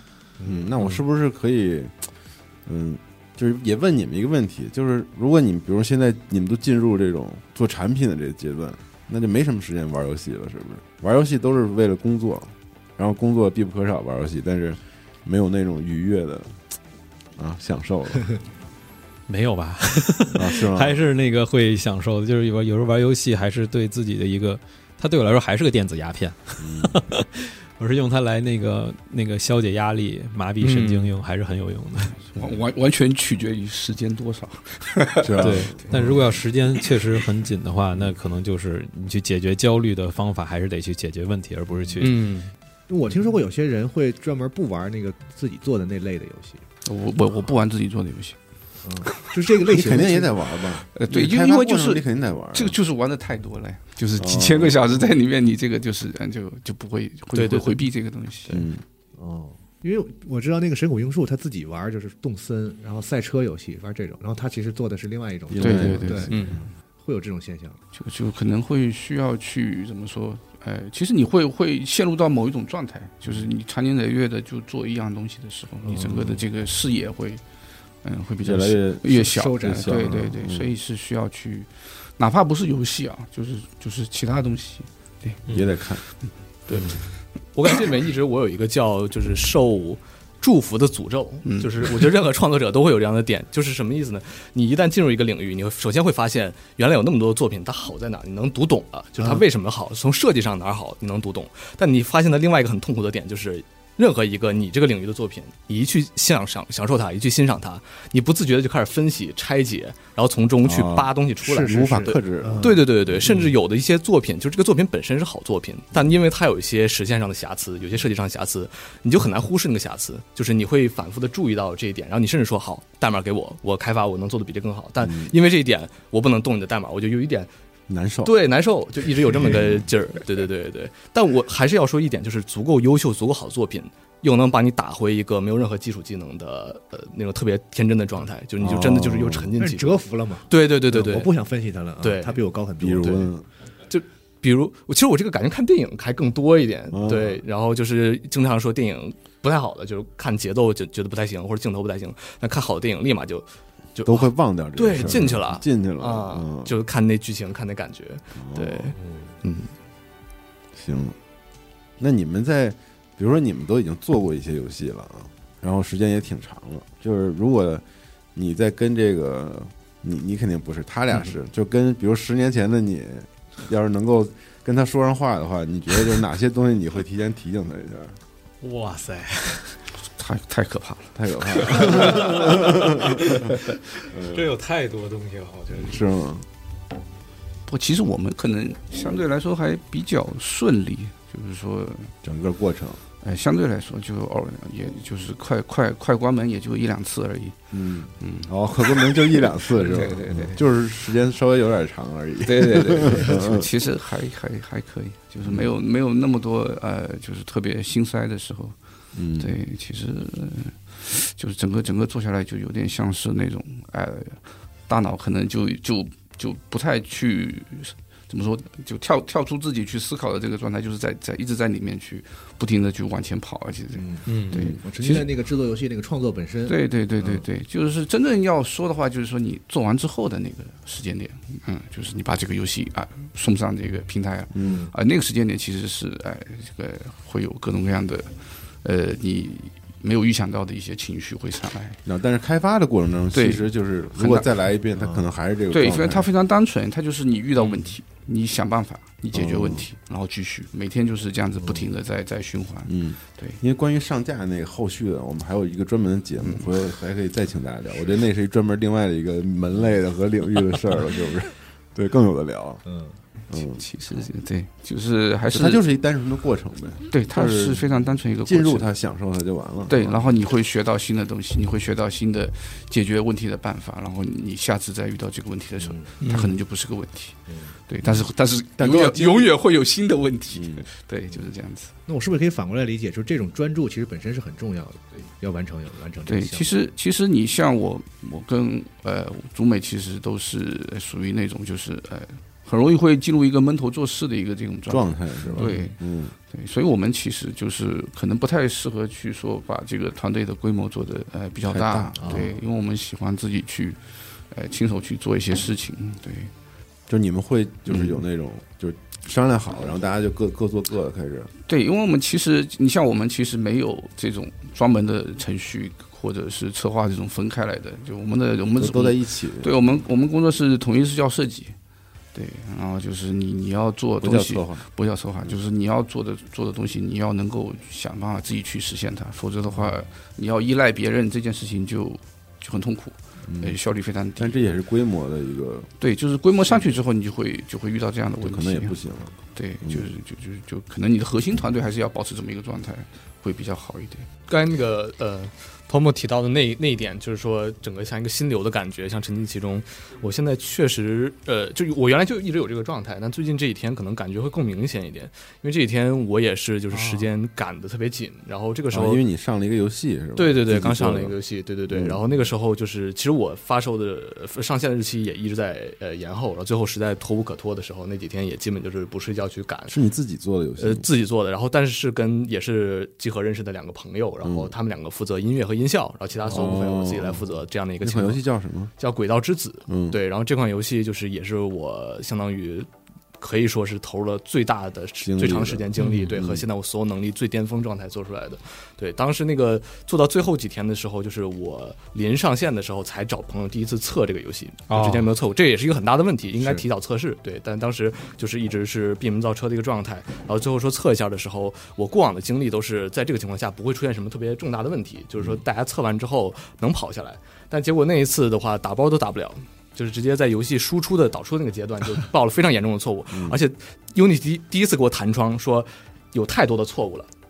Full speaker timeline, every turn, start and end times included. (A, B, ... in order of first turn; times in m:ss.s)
0:00.4-0:02.0 A
0:02.6-0:16.6 A
0:17.4-0:18.3 A
0:19.3-0:32.2 B
0:20.3-0:21.0 A
0:26.6-0:27.0 A
0:30.6-0:31.2 C
0:32.3-0:36.0 D
0:35.2-0:35.9 A
0:35.4-0:42.3 B
0:42.0-0:42.5 C
0:42.9-0:46.6 E
0:46.8-0:48.4 D
0:48.8-0:50.4 E
0:49.6-0:52.8 A
0:50.9-0:52.0 D
0:52.5-0:58.6 D
0:54.2-0:54.8 A
0:57.3-0:57.8 C
0:58.5-0:58.8 A
0:59.2-1:06.4 E
1:05.5-1:06.6 A
1:05.6-1:06.6 D
1:06.3-1:06.6 C
1:07.0-1:07.8 E
1:07.9-1:17.4 D
1:18.0-1:25.4 D
1:18.4-1:20.7 A
1:19.3-1:20.2 E
1:25.5-1:26.0 A
1:26.7-1:27.0 C
1:27.5-2:07.5 C
1:31.4-1:31.9 D
1:50.6-1:53.4 A
1:51.4-1:52.8 E
2:05.0-2:05.4 A
2:07.9-2:08.3 A
2:08.2-2:21.3 C
2:09.4-2:09.8 A
2:18.6-2:19.6 A
2:19.6-2:23.3 E
2:22.0-2:22.4 C
2:22.8-2:23.4 A
2:23.9-2:39.7 C
2:26.9-2:27.4 A
2:34.0-2:36.7 A
2:38.4-2:38.9 A
2:39.0-2:39.3 E
2:40.7-2:41.2 A
2:42.0-2:47.8 A
2:48.3-2:58.2 A
2:58.6-2:59.8 B
3:00.2-3:02.5 D
3:01.1-3:03.4 A
3:01.9-3:03.5 B
3:04.1-3:06.0 B
3:04.1-3:04.4 A
3:05.7-3:06.4 A
3:07.7-3:12.1 D
3:12.2-3:13.0 A
3:13.2-3:17.6 D
3:17.7-3:23.7 A
3:18.2-3:20.6 D
3:22.4-3:28.8 D
3:25.4-3:25.7 A
3:29.1-3:29.6 A
3:29.4-3:45.3 D
3:44.0-3:47.4 E
3:44.3-3:44.6 C
3:44.5-3:44.8 A
3:46.7-4:02.0 D
3:54.5-3:54.8 A
3:54.6-3:54.9 E
4:02.0-4:06.3 A
4:03.3-4:04.5 D
4:05.0-4:05.3 E
4:05.7-4:13.6 D
4:09.3-4:09.9 A
4:12.8-4:22.8 A
4:22.8-4:23.2 E
4:23.5-4:23.8 A
4:23.5-4:25.8 D
4:25.5-4:30.4 A
4:27.1-4:28.9 D
4:29.9-4:41.9 D
4:35.8-4:36.1 E
4:36.2-4:36.5 C
4:37.5-4:37.7 E
4:38.8-4:39.6 A
4:40.5-4:40.9 A
4:42.0-4:46.9 E
4:46.3-5:06.5 D
4:54.9-4:56.3 A
4:55.4-4:55.7 E
5:01.7-5:02.6 A
5:02.2-5:02.4 E
5:07.1-5:11.5 A
5:11.7-5:21.7 D
5:18.8-5:19.7 A
5:22.3-5:34.6 D
5:24.2-5:24.8 A
5:33.4-5:33.8 A
5:34.4-5:35.9 A
5:36.0-5:39.0 D
5:38.4-5:40.1 A
5:39.5-5:44.3 D
5:44.5-5:59.2 C
5:56.9-5:57.3 B
5:58.9-6:01.4 A
6:00.4-6:10.0 C
6:01.9-6:02.2 A
6:09.9-6:11.1 A
6:10.8-6:18.4 C
6:14.4-6:14.7 A
6:16.5-6:17.5 A
6:18.0-6:18.9 A
6:19.0-6:22.9 C
6:19.9-6:20.2 A
6:23.4-6:57.3 C
6:25.2-6:26.7 A
6:26.0-6:26.3 B
6:34.9-6:35.3 B
6:53.3-6:53.6 A